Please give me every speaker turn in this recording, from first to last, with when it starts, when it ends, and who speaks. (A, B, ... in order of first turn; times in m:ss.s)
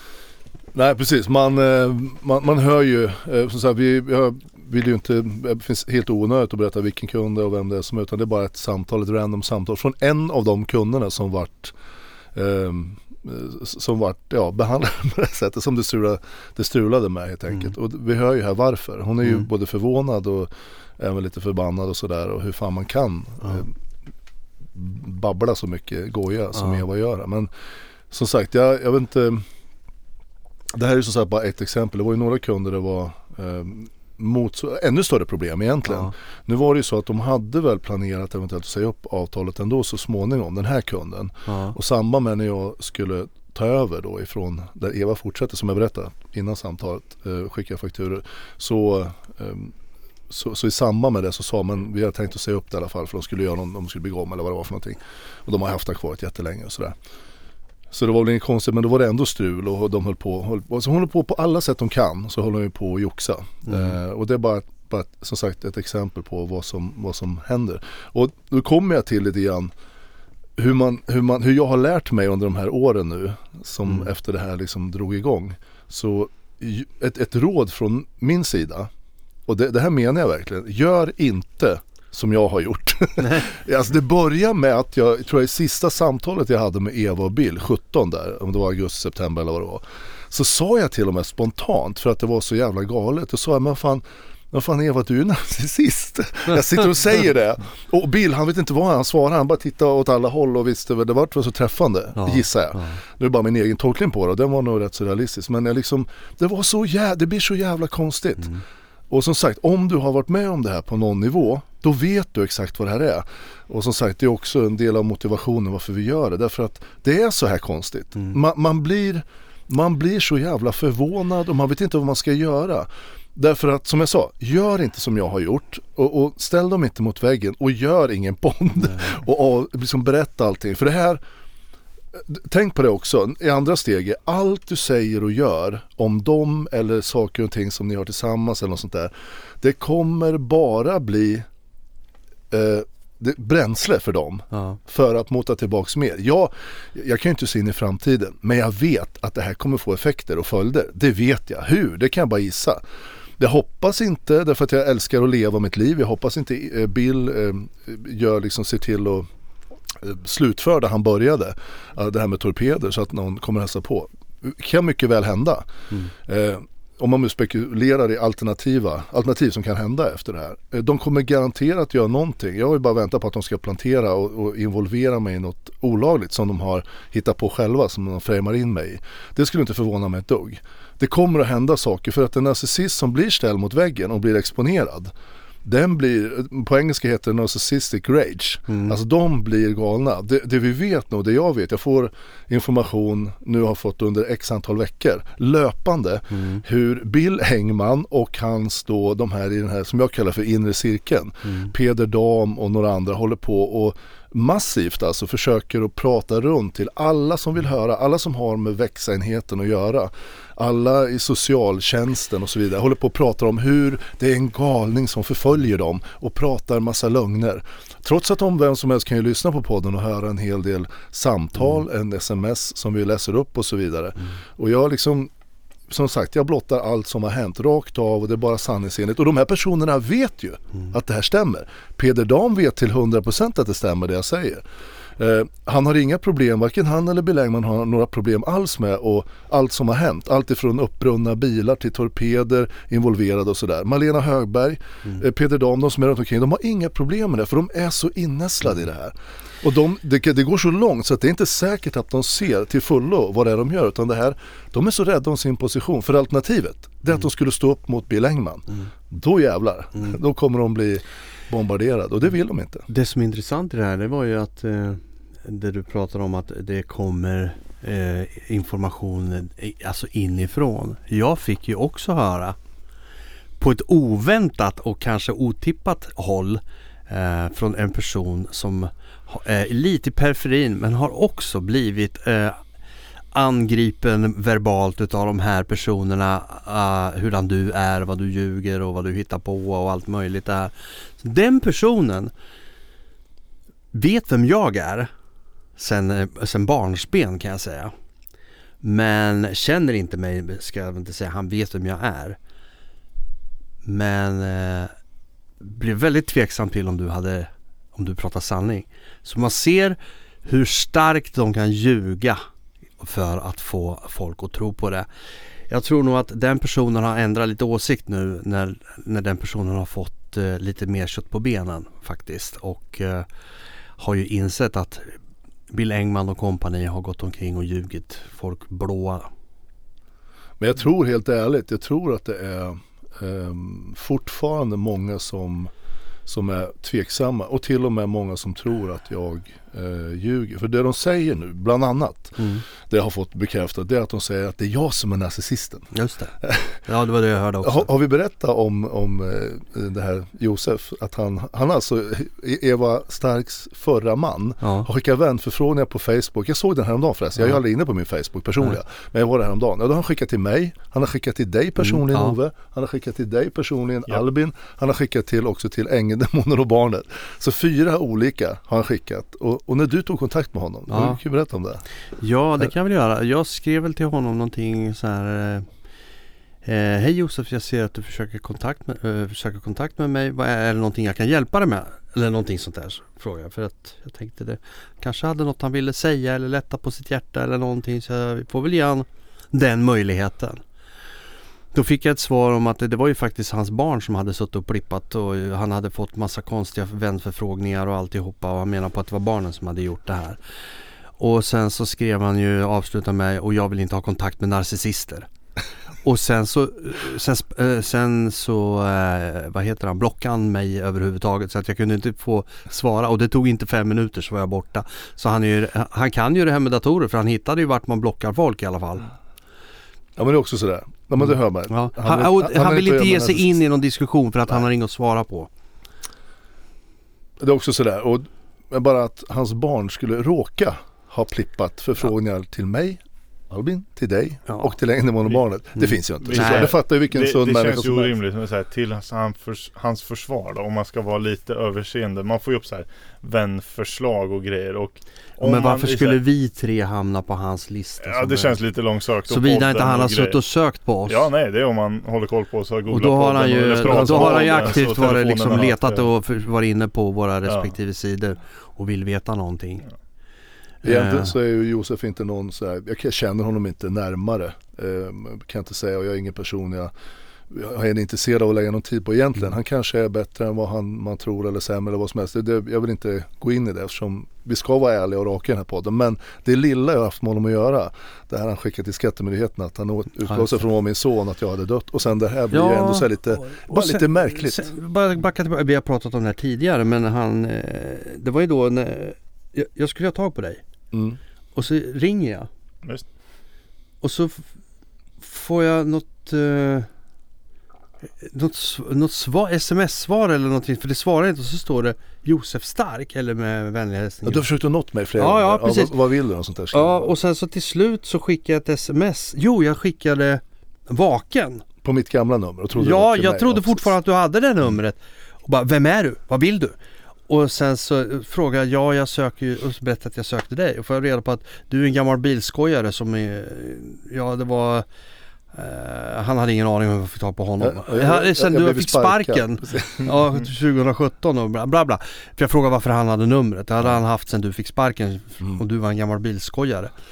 0:00.7-0:11.7 A
0:12.3-0:23.7 A
0:19.2-0:19.5 B
0:24.7-0:27.5 A
0:26.6-0:26.8 B
0:28.1-0:29.4 A
0:30.7-0:49.7 A
0:35.8-0:36.1 B
0:41.5-0:41.8 B
0:50.3-0:56.9 A
0:57.9-1:09.7 A
1:03.7-1:04.0 B
1:10.6-1:18.9 A
1:19.5-1:48.5 A
1:23.2-1:23.4 B
1:42.2-1:43.0 B
1:49.1-2:11.2 A
2:12.3-2:21.4 A
2:22.5-2:32.8 A
2:24.5-2:24.8 B
2:33.4-2:39.3 A
2:40.0-2:45.7 A
2:46.2-3:05.1 A
3:05.6-3:45.3 A
3:08.7-3:09.0 B
3:16.3-3:16.6 B
3:21.4-3:21.7 B
3:45.9-3:54.6 A
3:55.2-4:22.9 A
4:22.9-4:32.6 B
4:33.6-4:42.6 B
4:43.3-4:52.3 B
4:53.9-4:55.1 B
4:55.8-4:57.9 B
4:58.8-5:02.4 B
5:03.8-5:04.9 B
5:05.6-5:12.4 B
5:13.0-5:15.1 B
5:15.7-5:23.2 B
5:24.0-5:25.1 B
5:25.7-5:29.3 B
5:30.6-5:35.7 A
5:36.3-5:45.9 A
5:42.4-5:42.6 B
5:45.9-5:47.9 B
5:46.4-5:46.8 A
5:47.6-6:11.8 A
5:54.6-5:54.9 B
6:01.8-6:02.3 B
6:10.9-6:11.2 B
6:12.2-6:15.7 B
6:16.6-6:30.6 B
6:31.7-6:40.4 B
6:41.2-6:45.3 B
6:46.0-6:59.1 B
7:00.2-7:03.6 A
7:01.7-7:05.5 B
7:07.4-7:18.1 A
7:15.8-7:16.8 B
7:16.2-7:26.2 C
7:25.4-7:28.6 B
7:28.0-7:30.4 C
7:29.3-7:31.3 B
7:31.0-7:36.0 C
7:32.9-7:39.8 B
7:33.8-7:34.9 A
7:37.4-7:37.7 C
7:40.8-7:41.3 B
7:40.8-7:46.9 A
7:47.5-8:04.7 A
8:02.5-8:10.6 B
8:10.9-8:11.2 A
8:11.5-8:12.5 B
8:14.0-8:14.4 B
8:15.2-8:16.9 B
8:18.2-8:24.5 B
8:24.2-8:27.1 A
8:25.2-8:26.0 B
8:26.7-8:31.6 B
8:31.8-8:33.9 A
8:32.8-8:36.7 B
8:37.3-8:44.8 B
8:45.5-8:56.9 B
8:47.6-8:50.1 A